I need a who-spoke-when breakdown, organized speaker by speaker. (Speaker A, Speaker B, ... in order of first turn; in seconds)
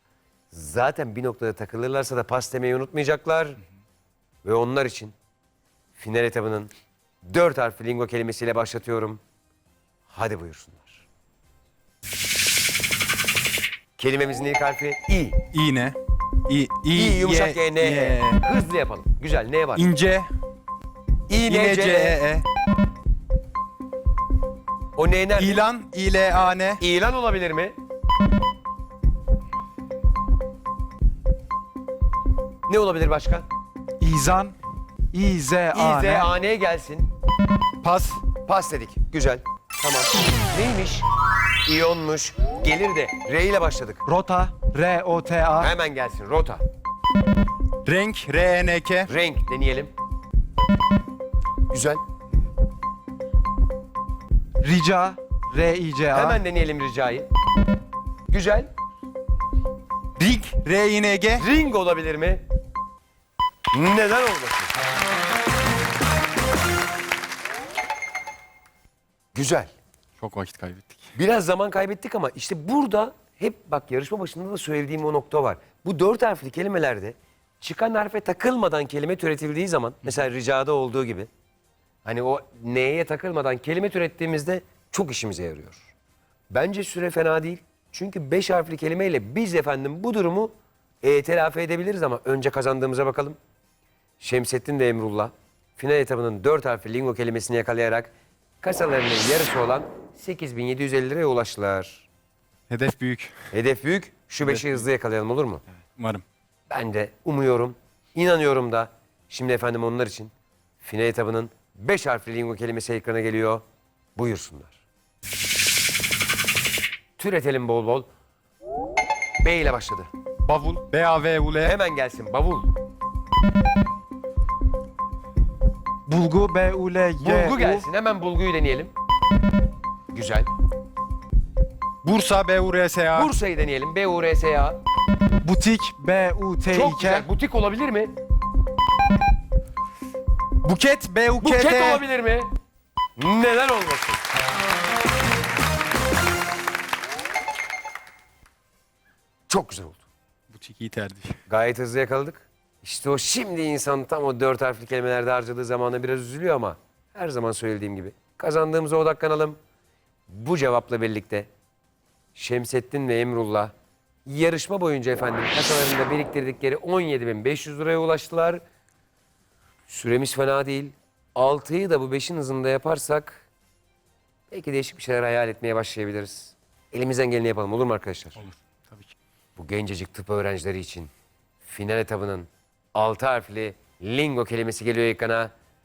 Speaker A: 0.5-3.6, 4.4-5.1, 6.0-6.7, 7.2-9.2, 10.1-11.0, 14.0-15.4, 16.9-19.9, 21.3-22.2, 24.9-25.6, 26.8-27.8, 32.7-33.5, 35.7-37.1, 38.4-41.1, 41.6-44.0, 45.6-46.6, 49.1-49.9, 51.7-52.0, 56.1-57.3, 58.3-58.7, 61.3-62.4, 63.7-64.7, 69.3-69.7, 71.1-81.3, 82.0-85.9, 86.5-93.4, 94.2-98.1, 98.6-102.1, 103.5-105.6, 106.7-113.6, 114.1-114.8, 117.2-118.1, 119.4-120.1, 121.6-122.7, 127.2-128.9, 130.1-130.5, 133.1-134.8, 136.7-138.1, 141.4-142.5, 143.2-144.2, 149.5-150.0, 151.5-159.6, 160.3-161.5, 162.3-163.7, 164.2-168.6, 169.9-173.4, 174.5-178.4, 179.6-181.1, 181.6-185.5
Speaker B: 15.5-16.0, 16.5-18.4, 19.8-20.3, 21.5-22.4, 25.4-26.8, 37.8-38.2, 47.9-49.1, 60.2-61.4, 70.2-71.1, 102.7-103.3, 104.4-104.8, 106.0-106.2, 120.4-121.8, 132.0-133.3, 140.6-142.0, 150.5-151.4, 178.4-179.1
Speaker C: 34.0-34.5, 35.1-36.3, 44.1-45.7, 54.6-56.4, 126.1-127.8, 135.4-137.3